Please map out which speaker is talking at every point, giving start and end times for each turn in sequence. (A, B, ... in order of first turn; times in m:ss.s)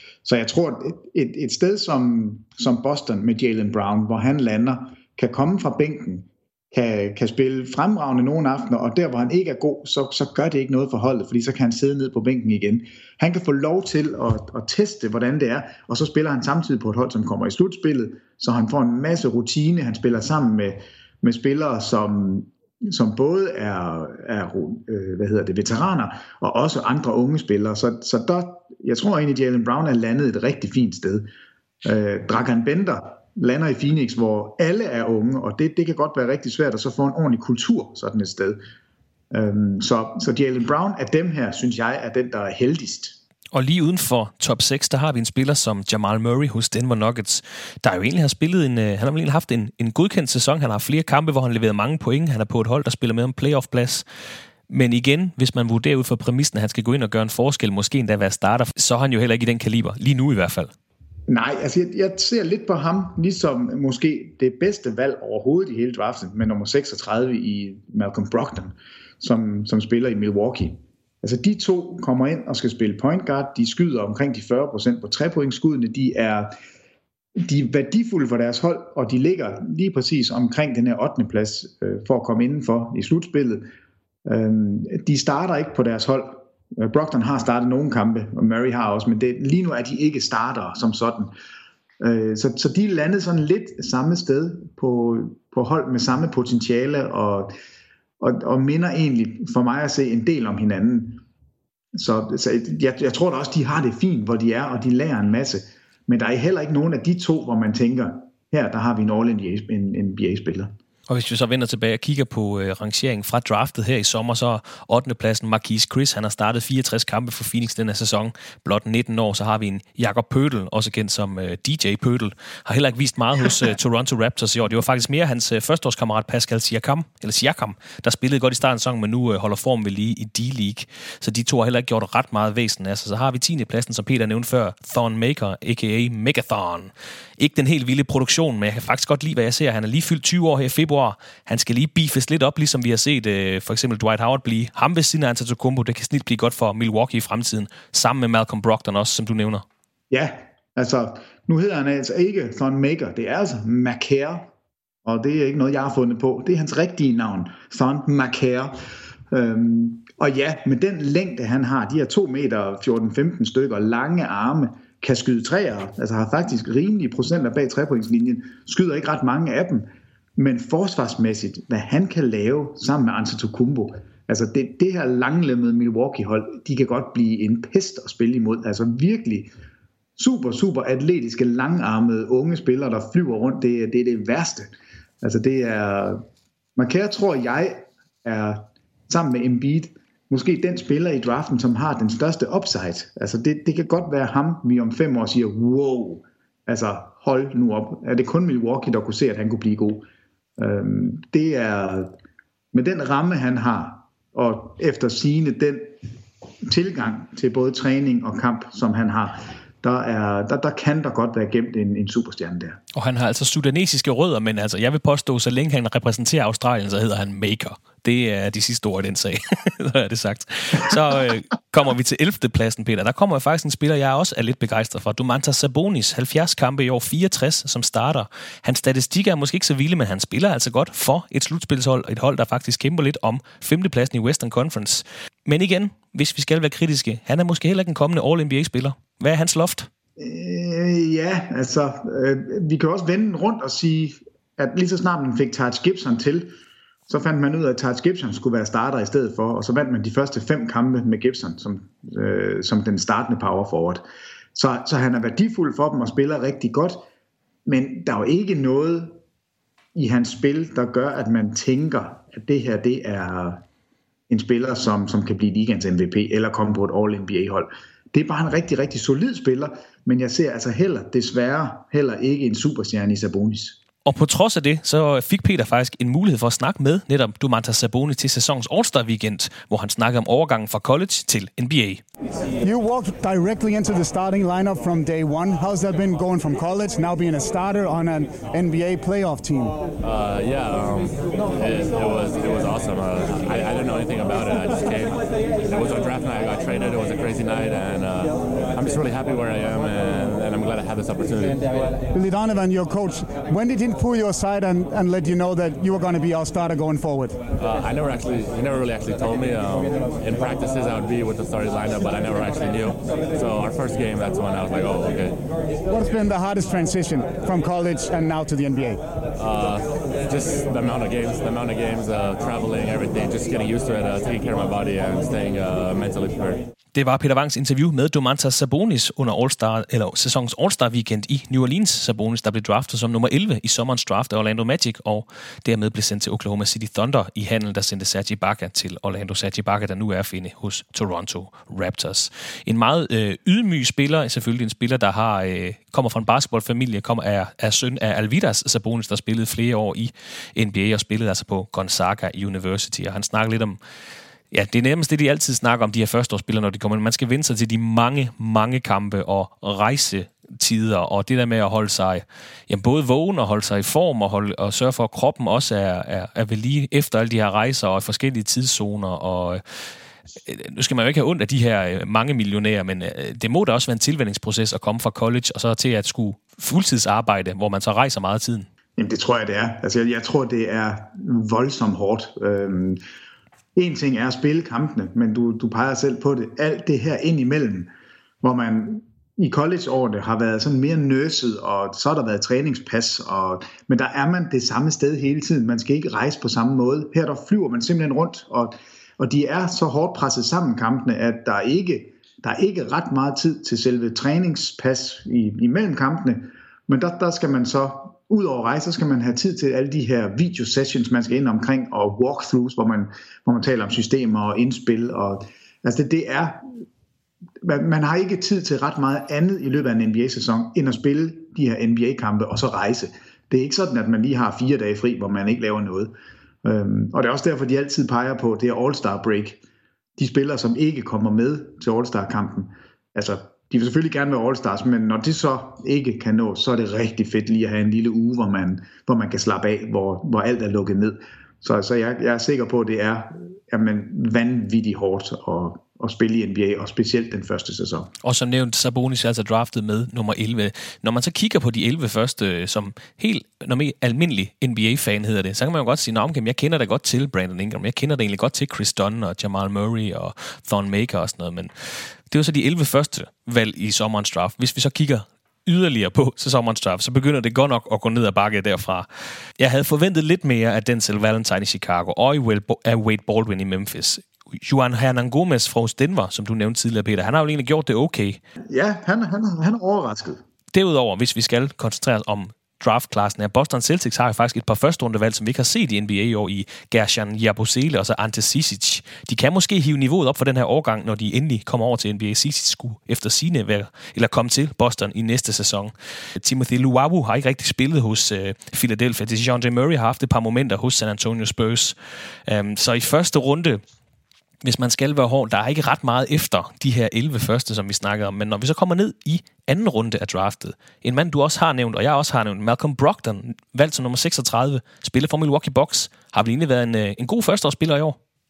0:00.2-0:31.3 A
0:31.8-0:38.6 A
0:39.3-0:43.2 A
0:43.5-0:54.0 B
0:54.7-1:00.7 B
1:01.3-1:16.5 A
1:17.4-1:23.7 A
1:24.2-1:31.3 A
1:32.0-1:37.5 A
1:38.2-1:41.2 A
1:41.9-1:50.7 A
1:51.1-2:29.6 B
2:30.1-2:34.5 A
2:35.0-2:38.8 A
2:39.3-2:59.5 A
3:00.2-3:06.2 A
3:06.8-3:20.0 A
3:20.6-3:22.1 A
3:22.7-3:26.0 A
3:26.6-3:32.8 A
3:32.9-3:59.9 B
4:00.2-4:06.5 A
4:07.1-4:17.0 A
4:17.6-4:19.2 A
4:19.9-4:23.6 A
4:24.3-4:33.8 A
4:34.0-4:42.0 B
4:42.6-4:49.8 C
4:50.0-5:01.6 D
5:02.1-5:07.4 C
5:07.6-5:15.4 D
5:15.9-5:19.0 C
5:19.4-5:26.6 D
5:26.9-5:53.8 B
5:54.5-6:09.6 B
6:10.4-6:18.7 B
6:19.0-6:23.0 A
6:23.8-6:27.9 A
6:28.4-6:56.6 A
6:57.6-7:09.6 A
7:10.2-7:28.1 A
7:28.2-7:41.7 B
7:42.3-7:49.0 B
7:49.6-7:58.4 B
7:58.7-8:00.4 A
8:00.7-8:21.9 B
8:22.5-8:23.8 B
8:24.6-8:38.2 B